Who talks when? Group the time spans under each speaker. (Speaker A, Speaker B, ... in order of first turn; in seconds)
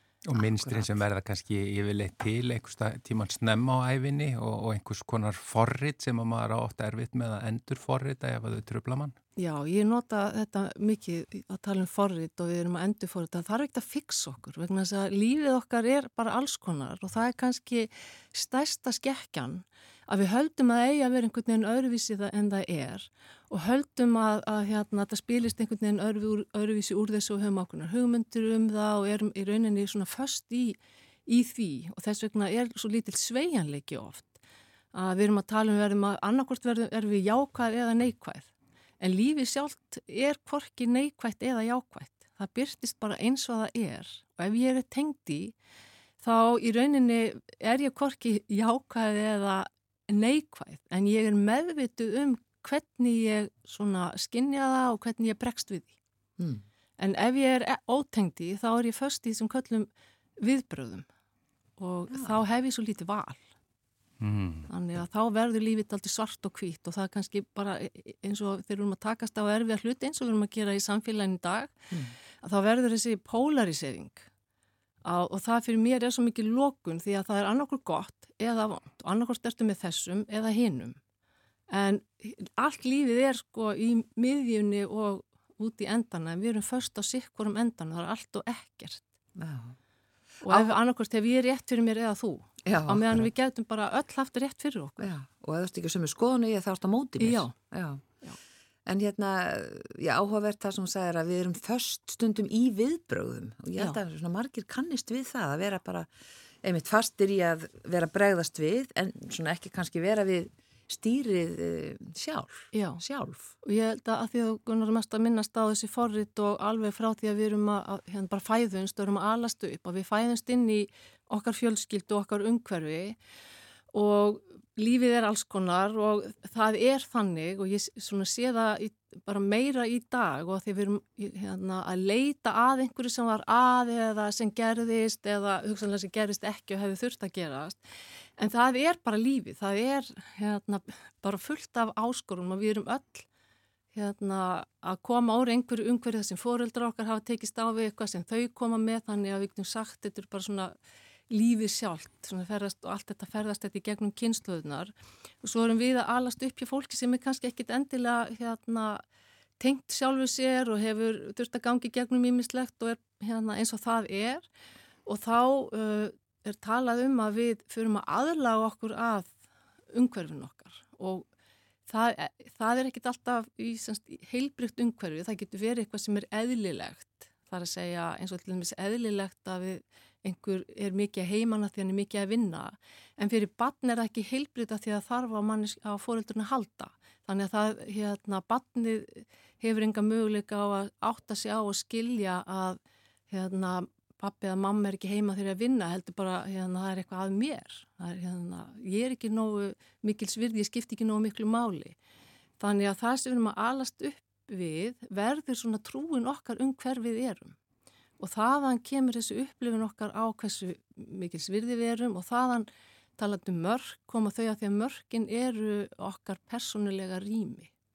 Speaker A: 0.2-9.1, 64.2-64.7
Speaker B: 9.4-34.4, 34.9-38.5, 39.0-45.5, 46.2-56.0, 57.0-59.9, 60.4-61.1, 61.8-63.4, 64.7-71.8, 72.4-74.3, 75.0-81.0, 81.7-89.1, 90.4-95.1, 97.2-97.5, 112.7-113.0, 113.6-123.2, 123.9-137.8, 138.4-143.2, 143.9-150.7, 151.3-159.0, 159.6-164.4, 165.1-169.3, 169.9-171.2, 171.9-192.8, 193.3-202.0, 202.6-207.6, 208.2-217.7
Speaker C: 56.4-56.6, 62.1-62.4, 89.4-89.7, 90.5-90.7, 92.6-93.3, 95.0-98.0, 98.8-106.1, 106.6-113.5